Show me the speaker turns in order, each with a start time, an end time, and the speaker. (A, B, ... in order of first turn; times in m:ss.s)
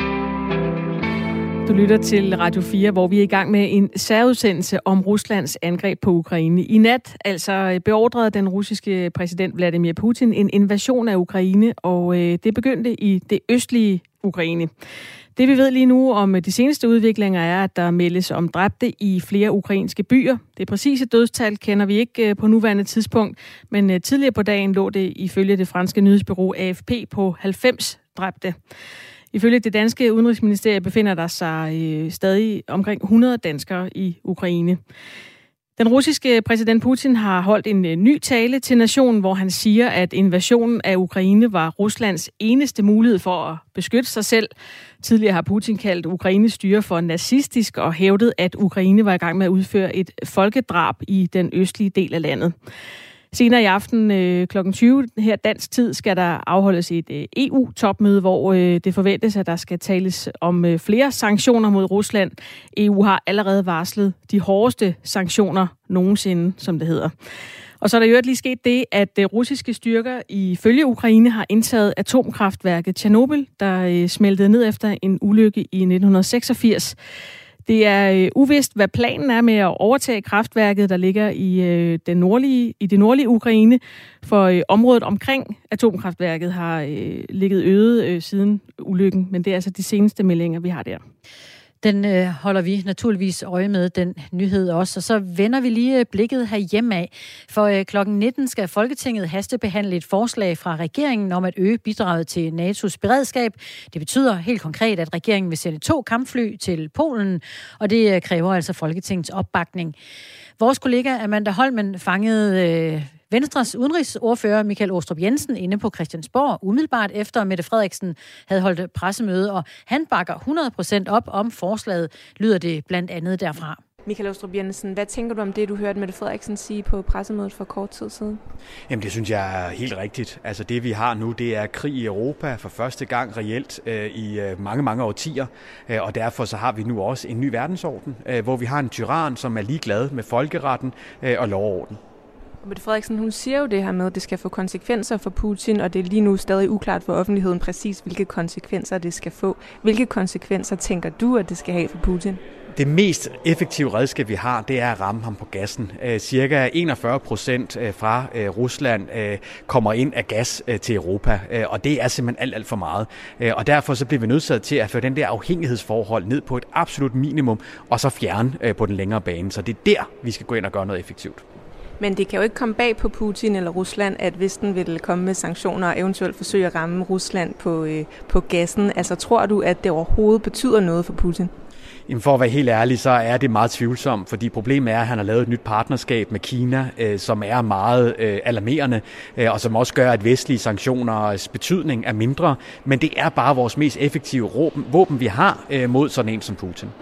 0:01.6-0:14.7 A
0:15.4-0:28.6 A
0:29.3-0:34.8 A
0:35.8-0:44.5 A
0:45.0-0:52.6 A
0:53.3-1:07.1 A
1:07.8-1:17.0 A
1:17.7-1:31.0 A
1:31.8-1:50.0 B
1:50.6-2:03.8 B
2:04.1-2:08.4 C
2:08.9-2:22.0 D
2:22.6-2:32.4 C
2:32.7-2:51.4 D
2:52.0-3:01.5 C
3:02.1-3:16.9 D